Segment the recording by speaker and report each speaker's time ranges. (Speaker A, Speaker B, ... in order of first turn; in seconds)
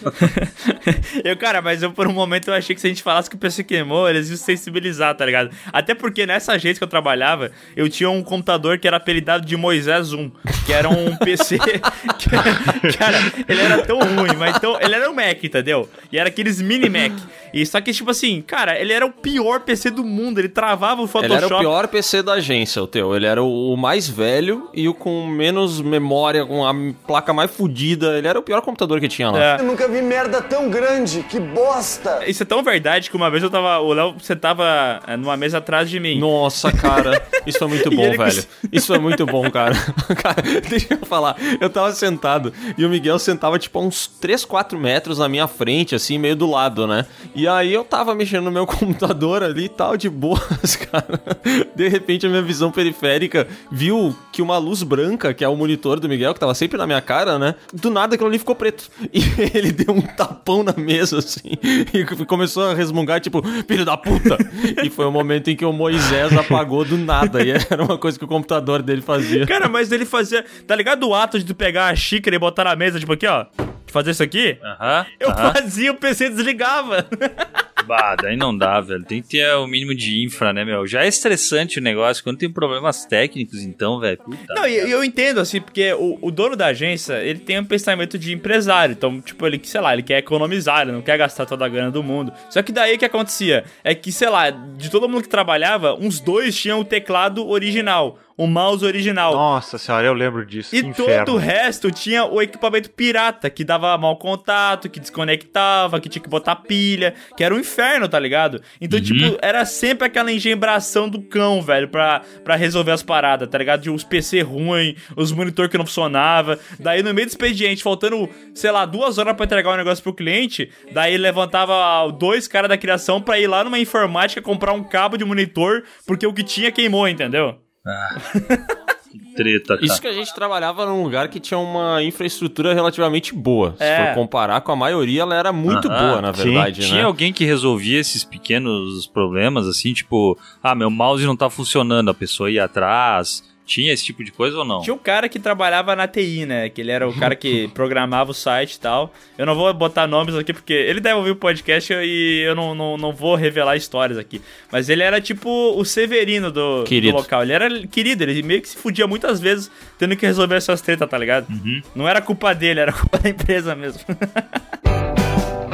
Speaker A: 0.2-21.7, 29.3-29.6, 32.2-36.9, 37.8-39.2, 69.2-74.6, 75.2-77.3, 84.5-99.4, 100.7-127.6, 128.3-128.6, 133.8-134.2, 144.8-164.4
Speaker B: 21.2-29.5, 36.1-69.5, 129.8-137.1, 156.8-157.2
Speaker C: 29.5-32.2
Speaker D: 74.6-75.6, 77.8-84.9, 108.9-109.3, 127.8-128.2, 129.3-130.0, 135.7-136.2, 136.8-144.9, 161.5-161.8
Speaker E: 99.3-101.5, 136.3-136.7